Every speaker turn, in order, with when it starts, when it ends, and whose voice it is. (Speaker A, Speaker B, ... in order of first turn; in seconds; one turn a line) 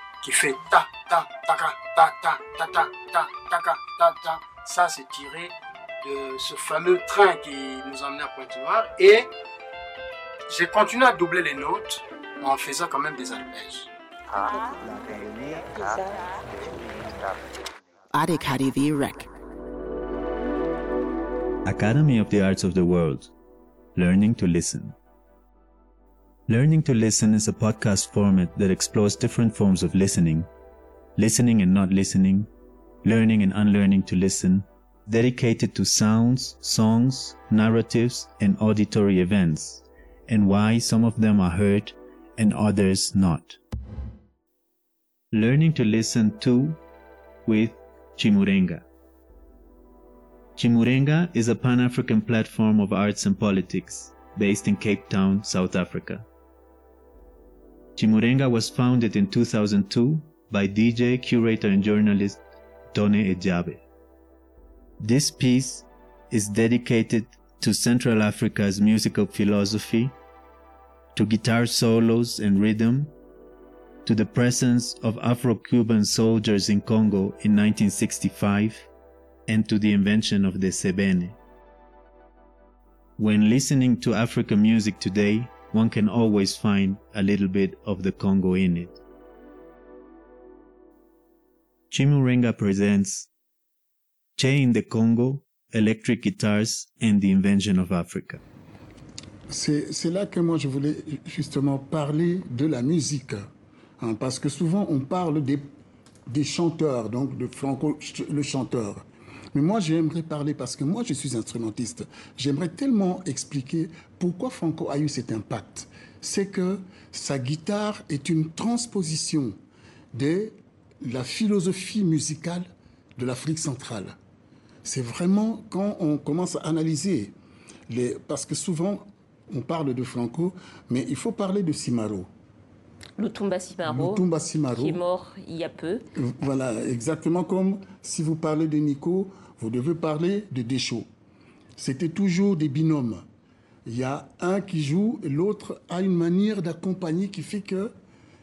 Speaker A: 0.2-9.3
Speaker A: 10.5-13.9
Speaker B: 14.3-16.9
Speaker B: 18.1-19.3
Speaker C: 21.6-23.3
Speaker C: 23.9-25.0
Speaker C: 26.5-30.5
Speaker C: 31.2-32.5
Speaker C: 33.0-43.6
Speaker C: 45.3-46.8
Speaker C: 47.5-48.8
Speaker C: 50.6-56.2
Speaker C: 58.0-62.4
Speaker C: 62.9-63.8
Speaker C: 65.0-70.2
Speaker C: 71.2-73.1
Speaker C: 74.0-78.9
Speaker C: 79.5-81.4
Speaker C: 83.2-89.0
Speaker C: 91.9-93.3
Speaker C: 94.4-98.4
Speaker D: 99.5-103.5
Speaker D: 104.0-105.7
Speaker D: 106.3-119.6
Speaker D: 120.1-124.2
Speaker D: 124.8-127.3
Speaker D: 127.9-132.3
Speaker B: 133.2-136.1
Speaker D: 133.8-135.0
Speaker D: 136.2-141.1
Speaker D: 141.8-143.2
Speaker D: 143.9-147.9